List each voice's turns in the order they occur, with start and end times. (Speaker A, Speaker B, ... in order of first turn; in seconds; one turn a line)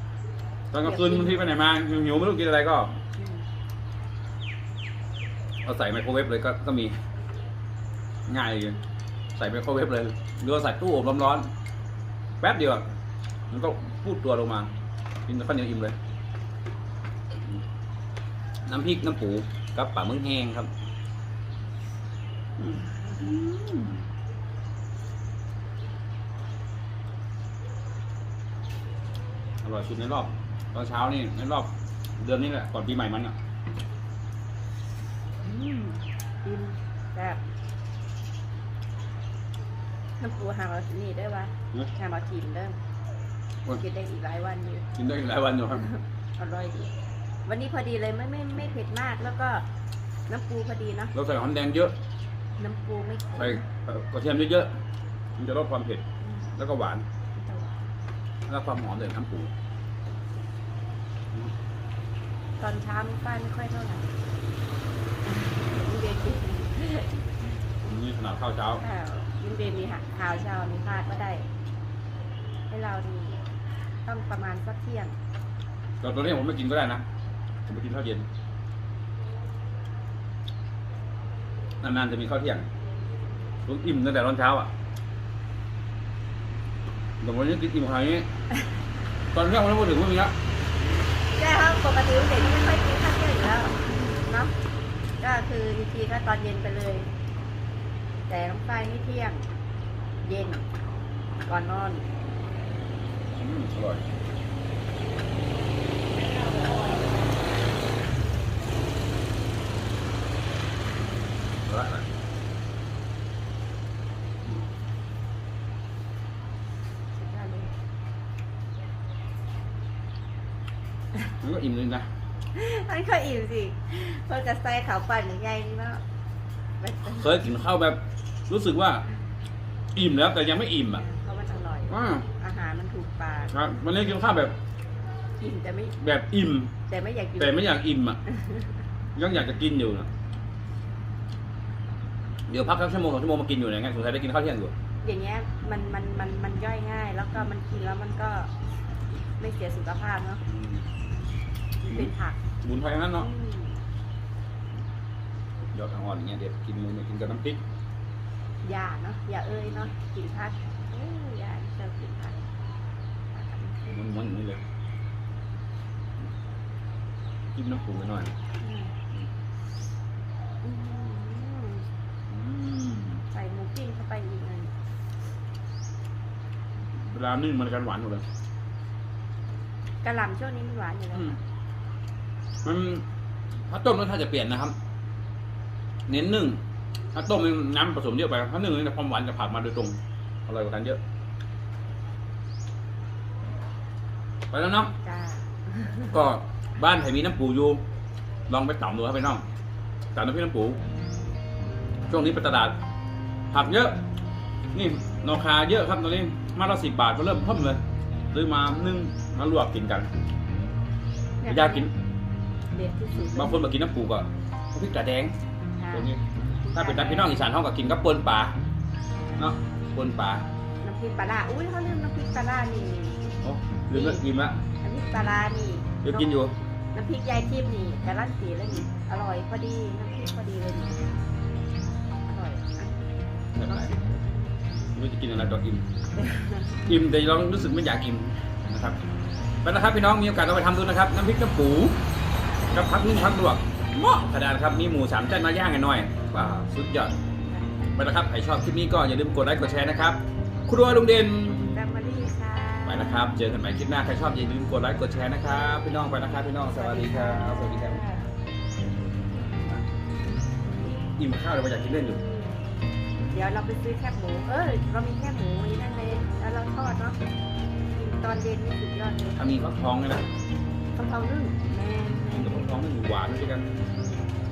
Speaker A: 0.7-3.0
Speaker B: 0.8-1.4
Speaker B: 3.2-3.4
Speaker A: 5.6-7.0
Speaker A: 8.3-8.8
Speaker A: 9.3-11.5
Speaker A: 12.4-12.8
Speaker A: 13.5-14.7
Speaker A: 15.3-16.0
Speaker A: 18.6-20.7
Speaker A: 22.6-24.0
Speaker A: 29.6-33.4
Speaker B: 35.4-37.4
Speaker B: 40.2-42.8
Speaker B: 43.8-44.9
Speaker A: 45.0-45.9
Speaker B: 45.9-46.9
Speaker B: 47.4-49.7
Speaker B: 50.3-51.1
Speaker A: 51.1-51.9
Speaker B: 52.6-53.6
Speaker A: 53.3-54.8
Speaker A: 55.4-57.0
Speaker B: 57.3-57.8
Speaker A: 58.5-59.5
Speaker B: 62.6-64.1
Speaker B: 65.2-67.2
Speaker A: 67.8-68.8
Speaker B: 68.8-71.5
Speaker B: 72.7-73.5
Speaker B: 74.0-75.2
Speaker A: 76.0-77.0
Speaker A: 77.7-78.2
Speaker A: 81.8-82.7
Speaker A: 83.7-84.7
Speaker A: 87.2-88.3
Speaker A: 89.3-90.3
Speaker B: 91.3-94.5
Speaker B: 95.2-97.1
Speaker B: 98.3-99.5
Speaker B: 100.2-100.7
Speaker B: 101.5-102.1
Speaker A: 103.3-104.0
Speaker A: 111.7-112.1
Speaker B: 117.1-117.7
Speaker A: 121.4-122.1
Speaker B: 122.5-126.0
Speaker B: 126.8-127.4
Speaker A: 127.1-129.0
Speaker A: 129.9-131.0
Speaker B: 131.0-133.5
Speaker A: 131.9-132.3
Speaker A: 133.5-134.6
Speaker B: 135.4-135.9
Speaker A: 136.0-136.8
Speaker B: 136.9-137.6
Speaker A: 137.4-138.2
Speaker B: 138.3-138.7
Speaker A: 139.2-140.1
Speaker A: 142.5-144.7
Speaker B: 145.0-148.5
Speaker B: 149.4-150.4
Speaker A: 150.5-150.8
Speaker B: 151.8-152.4
Speaker A: 152.6-153.3
Speaker B: 153.2-153.8
Speaker A: 155.7-157.6
Speaker B: 158.6-162.4
Speaker B: 163.3-164.0
Speaker A: 163.9-164.6
Speaker A: 167.5-168.3
Speaker B: 168.6-168.9
Speaker B: 170.6-171.9
Speaker A: 172.3-173.2
Speaker B: 173.3-174.7
Speaker A: 177.0-178.2
Speaker B: 180.0-181.4
Speaker A: 182.6-183.1
Speaker A: 183.7-184.7
Speaker A: 186.1-186.6
Speaker A: 187.1-191.0
Speaker A: 194.5-194.9
Speaker B: 195.0-196.1
Speaker A: 196.1-197.8
Speaker A: 198.5-199.4
Speaker A: 200.1-200.8
Speaker A: 202.1-202.8
Speaker A: 203.5-204.0
Speaker A: 204.7-210.1
Speaker B: 211.4-211.9
Speaker A: 211.4-211.9
Speaker B: 212.7-213.7
Speaker A: 213.1-215.3
Speaker B: 215.8-216.1
Speaker A: 215.9-216.2
Speaker B: 216.7-217.4
Speaker A: 216.7-218.6
Speaker A: 219.4-220.4
Speaker B: 220.8-223.3
Speaker A: 223.4-224.6
Speaker B: 223.9-224.2
Speaker B: 224.8-226.3
Speaker A: 226.0-226.6
Speaker B: 226.9-231.0
Speaker B: 232.2-232.9
Speaker A: 233.6-233.9
Speaker B: 233.7-233.9
Speaker A: 234.9-235.8
Speaker B: 236.2-236.7
Speaker A: 236.8-239.0
Speaker A: 239.6-242.0
Speaker A: 242.7-247.1
Speaker B: 247.5-247.8
Speaker A: 247.9-251.8
Speaker B: 251.5-253.4
Speaker A: 252.8-258.0
Speaker B: 256.7-258.3
Speaker A: 261.1-262.2
Speaker B: 263.3-267.2
Speaker B: 267.9-269.6
Speaker A: 269.4-270.3
Speaker B: 270.9-272.7
Speaker A: 272.3-273.8